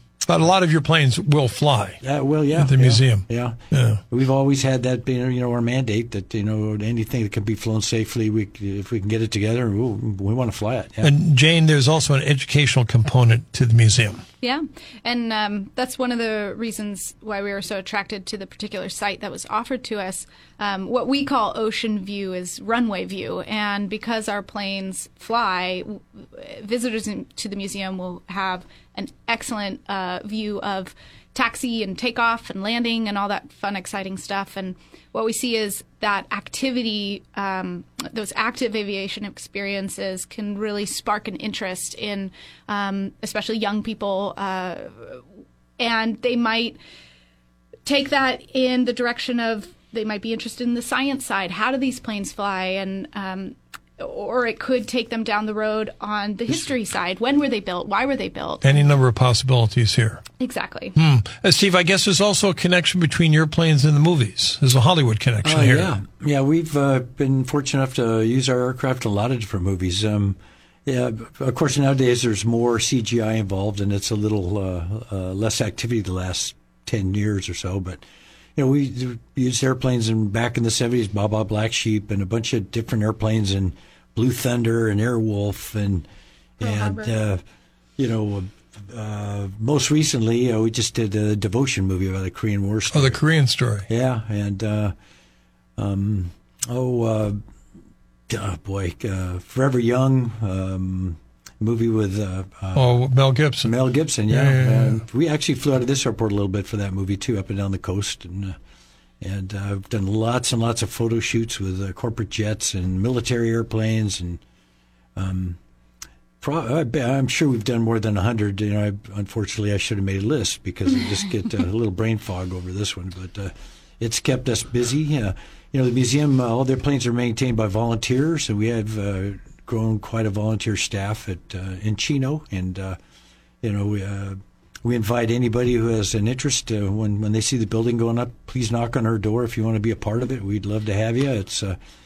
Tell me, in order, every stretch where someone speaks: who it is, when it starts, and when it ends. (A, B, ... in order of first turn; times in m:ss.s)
0:00.2-0:02.0 A
0:02.0-0:03.6 B
0:02.6-0:04.0 A
0:04.1-0:11.1 B
0:11.0-0:14.2 A
0:14.4-0:45.2 C
0:45.8-0:46.8 C
0:47.8-0:58.7 C
0:58.6-1:00.2 A
1:00.4-1:01.0 C
1:01.0-1:05.9 A
1:05.4-1:18.0 B
1:18.6-1:26.0 B
1:26.6-1:27.4 B
1:26.6-1:27.1 C
1:28.0-1:33.2 B
1:32.9-1:33.8 A
1:33.9-1:34.9 B
1:35.8-1:37.4 B
1:38.3-1:42.9 B
1:42.7-1:43.7 A
1:43.6-1:48.6 B
1:44.3-1:45.0 A
1:49.2-1:54.4 B
1:55.2-1:55.6 B
1:56.4-2:13.0 B
2:13.6-2:21.8 B